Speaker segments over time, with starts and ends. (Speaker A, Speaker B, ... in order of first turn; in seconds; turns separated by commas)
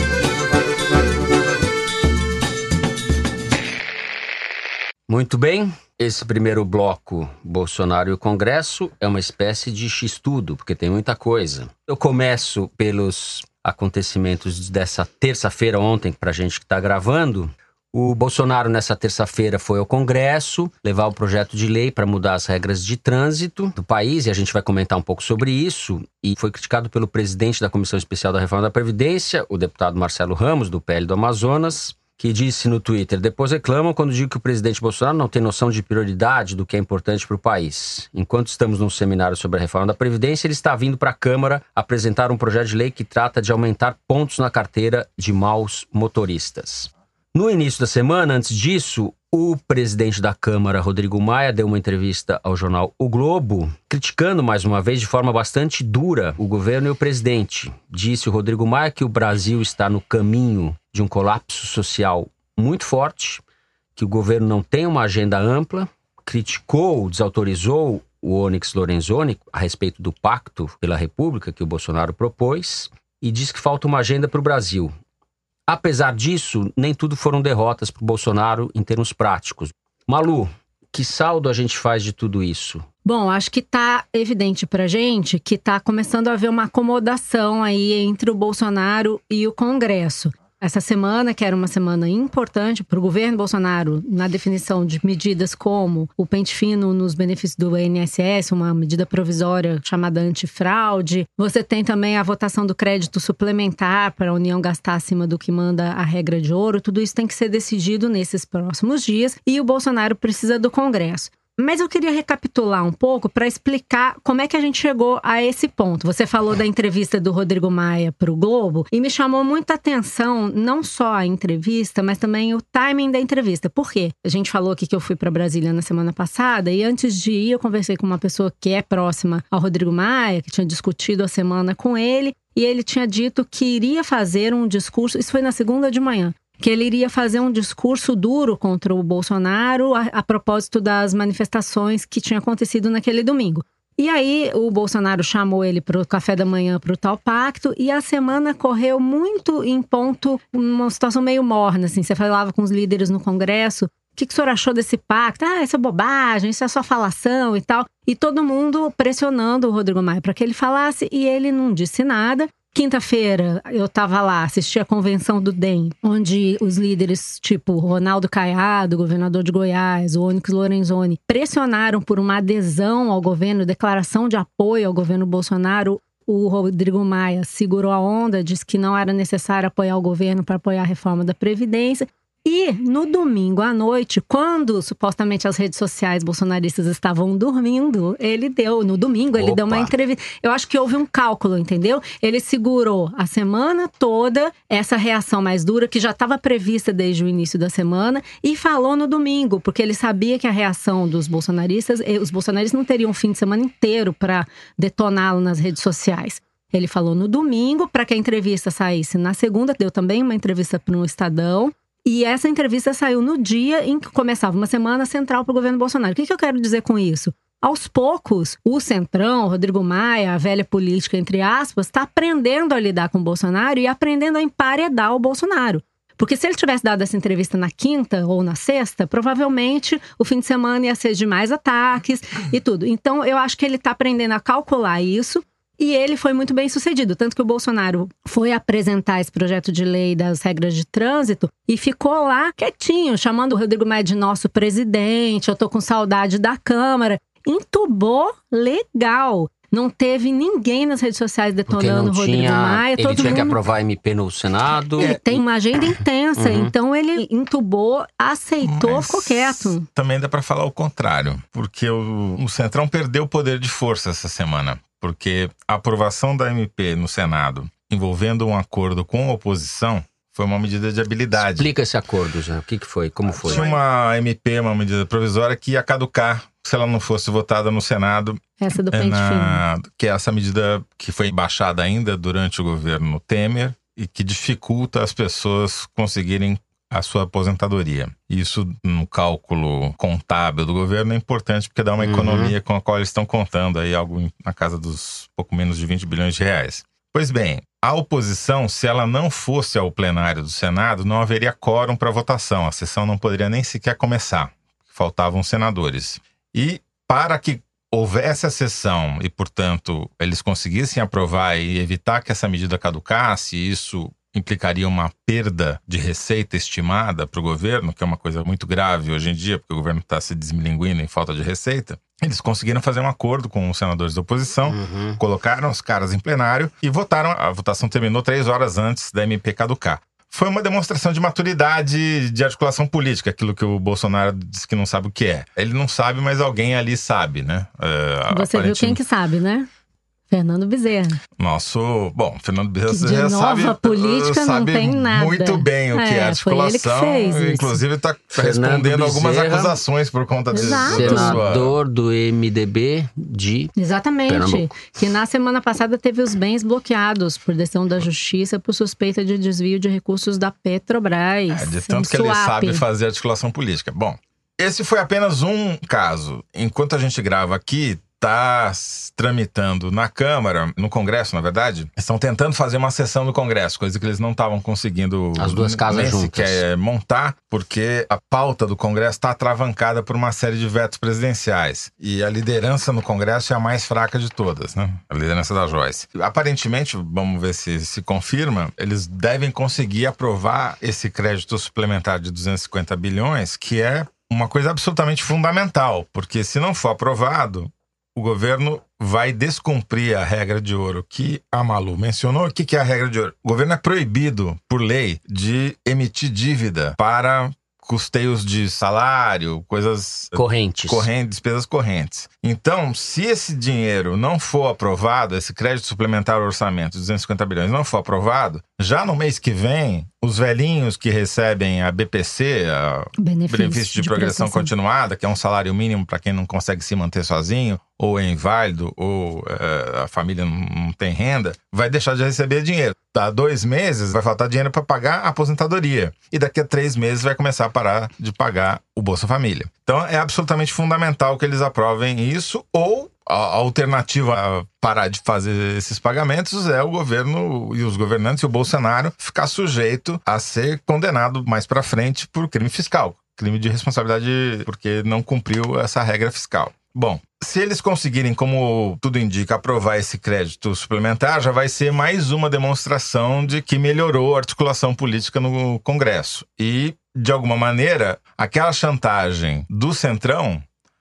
Speaker A: 5.1-63.4, Speaker A: 64.0-74.9, Speaker A: 75.7-82.8, Speaker B: 83.0-253.6, Speaker C: 189.4-189.9, Speaker A: 251.7-255.4, Speaker B: 255.0-259.8, Speaker A: 256.4-256.7, Speaker C: 258.6-271.7, Speaker A: 271.5-273.6, Speaker C: 273.4-339.0, Speaker B: 273.5-273.8, Speaker B: 278.6-279.6, Speaker A: 292.0-292.5, Speaker A: 324.7-325.2, Speaker B: 338.3-339.7, Speaker B: 340.3-341.2, Speaker C: 341.4-351.8, Speaker B: 342.9-347.8, Speaker A: 348.3-349.8, Speaker B: 350.5-351.4, Speaker A: 350.8-353.7, Speaker B: 353.8-362.8, Speaker A: 354.3-354.8, Speaker C: 361.5-470.6, Speaker A: 375.4-376.6, Speaker A: 410.3-411.1, Speaker B: 423.2-424.7